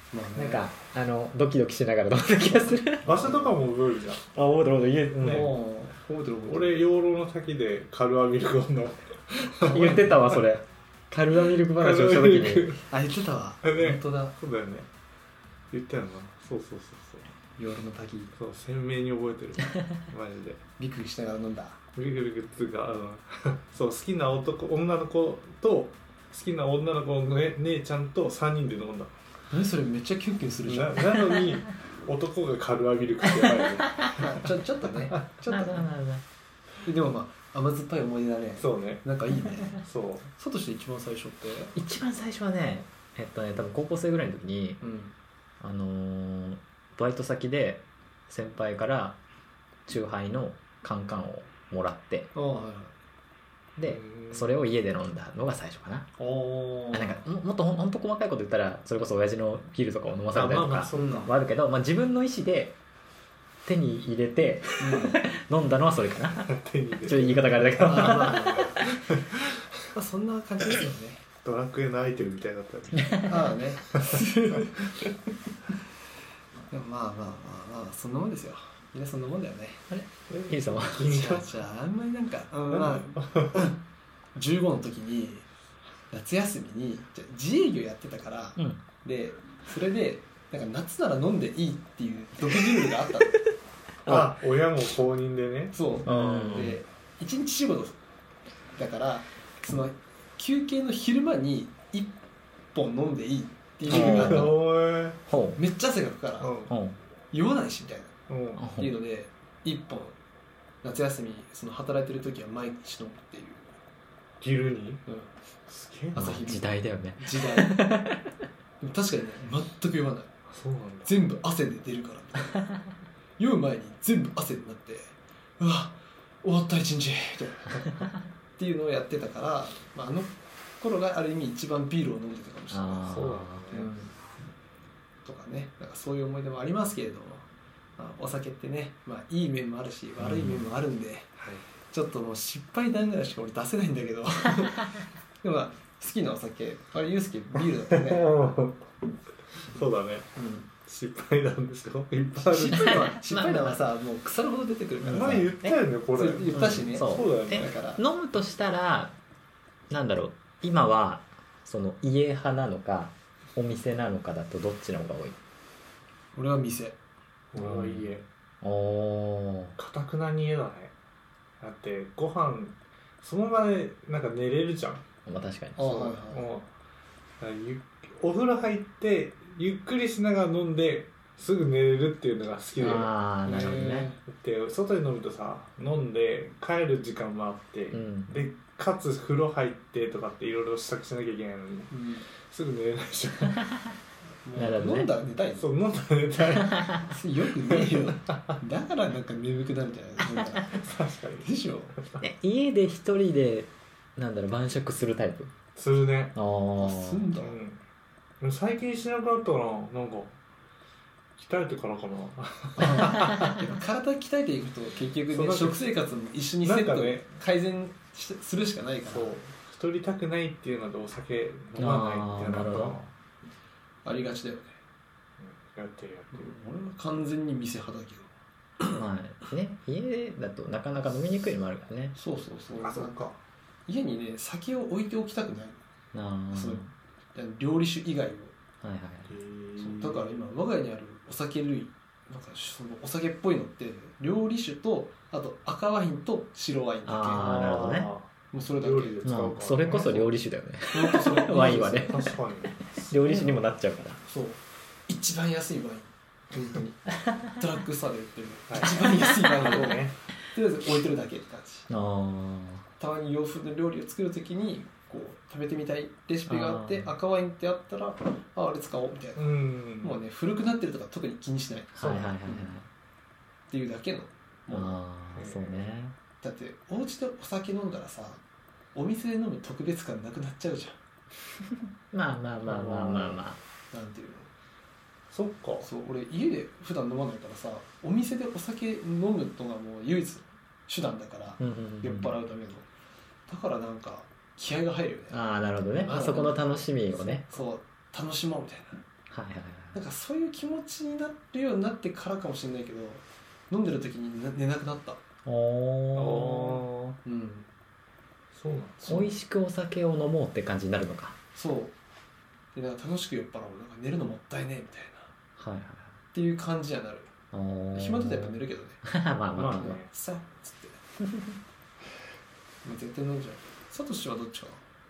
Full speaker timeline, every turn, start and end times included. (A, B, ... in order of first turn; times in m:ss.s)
0:00.1-0:00.7 A
0:00.4-0:03.2 B
0:03.0-0:04.3 C
0:03.1-0:03.5 A
0:04.3-0:05.5 B
0:05.2-0:05.5 C
0:05.2-0:06.8 A
0:06.5-0:10.5 C
0:09.7-0:12.7 B
0:11.7-0:12.8 C
0:12.9-0:14.4 A
0:13.6-0:14.9 C
0:15.7-0:17.3 C
0:17.6-0:18.3 A
0:18.4-0:20.6 C
0:20.8-0:21.8 A
0:22.0-0:29.2 C
0:29.5-0:31.2 A
0:30.7-0:34.5 C
0:33.2-0:34.1 B
0:34.2-0:35.8 A
0:35.5-0:36.2 B
0:36.8-0:39.8 A
0:38.6-0:39.0 C
0:39.8-0:40.3 C
0:40.4-0:41.7 A
0:41.8-0:44.8 B
0:44.8-0:45.1 A
0:45.6-0:49.2 B
0:49.9-0:52.3 B
0:52.4-0:52.9 A
0:53.8-0:56.1 B
0:53.8-0:54.6 C
0:56.2-0:57.2 A
0:56.9-1:02.8 B
1:00.3-1:01.3 C
1:00.9-1:01.3 A
1:03.6-1:06.5 B
1:04.8-1:05.2 A
1:06.4-1:09.6 C
1:07.0-1:08.9 B
1:07.9-1:08.9 A
1:09.9-1:11.2 A
1:11.4-1:13.3 C
1:13.0-1:13.4 B
1:13.3-1:14.7 A
1:16.7-1:19.8 A
1:19.9-1:21.1 B
1:20.3-1:21.5 C
1:21.0-1:23.8 A
1:22.7-1:23.7 C
1:24.4-1:25.5 A
1:26.1-1:33.4 A
1:28.6-1:28.8 B
1:34.0-1:34.3 B
1:34.1-1:35.8 C
1:35.7-1:38.0 A
1:36.1-1:36.8 B
1:38.8-1:42.2 A
1:42.7-1:44.5 A
1:43.9-1:45.2 C
1:43.9-1:44.5 B
1:45.3-1:45.6 B
1:45.6-1:46.5 A
1:46.4-1:46.7 C
1:46.7-1:47.0 B
1:47.3-1:48.2 A
1:48.3-1:48.7 C
1:48.6-1:48.9 B
1:48.8-1:50.2 A
1:50.8-1:53.6 A
1:54.4-1:55.0 C
1:55.7-1:56.5 C
1:56.1-1:57.8 A
1:56.2-1:58.3 B
1:58.8-2:00.3 A
2:00.5-2:01.1 C
2:01.0-2:02.6 A
2:03.4-2:07.9 A
2:08.6-2:14.1 A
2:12.7-2:13.7 B
2:13.1-2:13.9 C
2:15.2-2:21.3 A
2:20.2-2:20.7 B
2:21.9-2:28.3 A
2:27.9-2:28.8 C
2:29.7-2:30.3 C
2:30.4-2:30.7 A
2:30.8-2:33.0 C
2:32.4-2:35.5 A
2:33.0-2:33.8 B
2:35.0-2:37.7 C
2:36.1-2:38.0 A
2:36.5-2:39.2 B
2:39.9-2:45.4 B
2:46.3-2:47.0 A
2:47.5-2:48.2 C
2:47.6-2:48.1 B
2:48.6-2:49.8 B
2:49.8-2:50.9 C
2:51.6-2:55.0 C
2:55.3-2:55.8 B
2:55.8-2:56.5 A
2:55.8-2:56.7 C
2:57.4-3:11.9 C
3:02.8-3:04.1 B
3:03.5-3:04.2 A
3:07.9-3:08.4 B
3:11.9-3:12.2 A
3:12.5-3:13.8 C
3:14.4-3:15.6 A
3:14.6-3:15.1 B
3:15.6-3:17.0 C
3:17.1-3:20.8 A
3:17.7-3:18.5 C
3:20.7-3:22.2 C
3:21.4-3:22.0 A
3:22.2-3:25.5 B
3:25.8-3:26.4 C
3:26.4-3:27.3 B
3:26.8-3:27.6 A
3:27.4-3:27.8 C
3:28.4-3:30.4 C
3:31.4-3:33.6 C
3:32.8-3:39.4 A
3:35.3-3:35.9 C
3:36.6-3:37.3 C
3:39.1-3:43.1 C
3:41.8-3:43.0 B
3:44.0-3:44.8 A
3:45.4-3:46.6 C
3:46.3-3:48.3 A
3:48.9-3:52.2 B
3:52.2-3:53.2 A
3:52.8-3:53.4 C
3:53.9-3:55.8 A
3:56.1-3:56.9 B
3:56.5-3:56.8 A
3:57.4-3:58.5 A
3:58.8-3:59.3 B
3:59.3-4:00.5 C
3:59.8-4:07.9 A
4:07.1-4:08.1 B
4:07.4-4:10.3 C
4:08.5-4:09.3 A
4:09.2-4:12.4 B
4:10.9-4:12.2 A
4:11.5-4:13.5 C
4:13.1-4:14.2 B
4:14.3-4:21.9 A
4:18.7-4:20.2 C
4:21.9-4:22.8 B
4:23.0-4:32.7 A
4:26.5-4:27.1 B
4:29.4-4:30.2 C
4:32.0-4:32.9 B
4:32.0-4:32.3 C
4:33.7-4:35.0 A
4:34.7-4:36.2 B
4:35.4-4:35.9 C
4:36.4-4:38.4 A
4:38.9-4:41.0 A
4:41.7-4:43.6 B
4:42.6-4:43.4 C
4:43.9-4:44.5 A
4:45.3-4:45.9 C
4:45.8-4:52.9 A
4:51.6-4:52.3 B
4:53.5-4:55.4 A
4:55.3-4:57.5 B
4:55.9-4:59.0 A
4:59.3-5:00.0 B
4:59.9-5:05.2 A
5:05.5-5:06.8 B
5:06.2-5:07.2 C
5:07.2-5:07.7 A
5:08.5-5:09.2 C
5:09.1-5:11.4 B
5:11.6-5:11.9 A
5:12.7-5:15.3 A
5:15.6-5:16.2 B
5:16.3-5:17.3 A
5:17.5-5:20.0 B
5:18.0-5:19.0 A
5:19.5-5:20.1 C
5:20.0-5:21.0 A
5:22.8-5:24.8 A